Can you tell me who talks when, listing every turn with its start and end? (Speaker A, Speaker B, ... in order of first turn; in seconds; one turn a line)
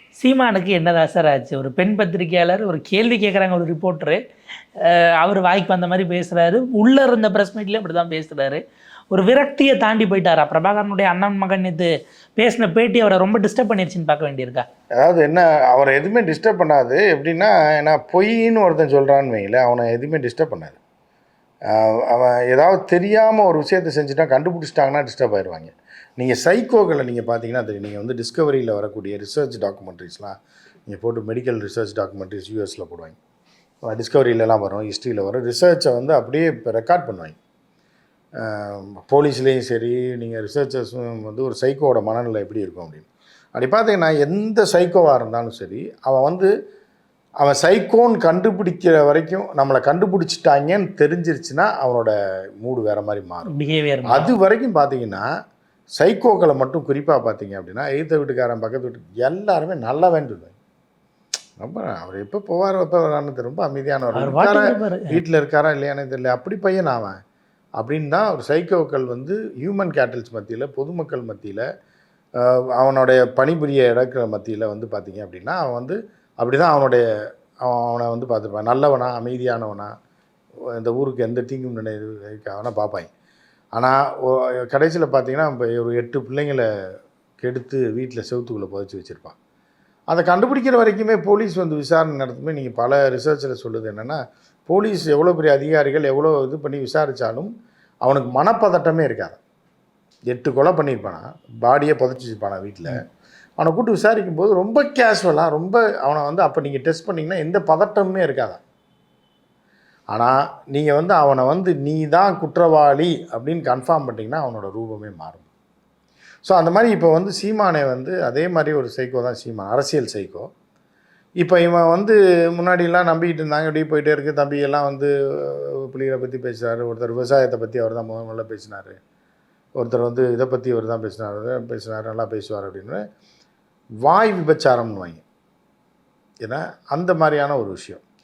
Speaker A: 0.2-4.2
Speaker A: 4.8-8.6
Speaker A: 9.1-14.7
Speaker B: 15.0-20.8
Speaker B: 21.7-33.2
Speaker B: 33.9-37.4
Speaker B: 38.4-46.5
Speaker B: 47.4-53.5
Speaker A: 53.5-54.3
Speaker B: 54.1-55.2
Speaker B: 56.0-60.5
Speaker B: 61.6-67.1
Speaker A: 64.2-65.2
Speaker B: 67.8-71.6
Speaker B: 72.4-77.0
Speaker B: 77.6-79.9
Speaker B: 80.8-83.1
Speaker B: 83.8-86.7
Speaker B: 87.4-89.4
Speaker B: 90.1-97.5
Speaker B: 98.0-99.4
Speaker B: 100.3-103.0
Speaker B: 103.6-108.6
Speaker B: 110.1-115.5
Speaker B: 116.5-120.5
Speaker B: 121.4-129.0
Speaker B: 129.8-133.0
Speaker B: 134.0-135.2
Speaker B: 136.4-138.0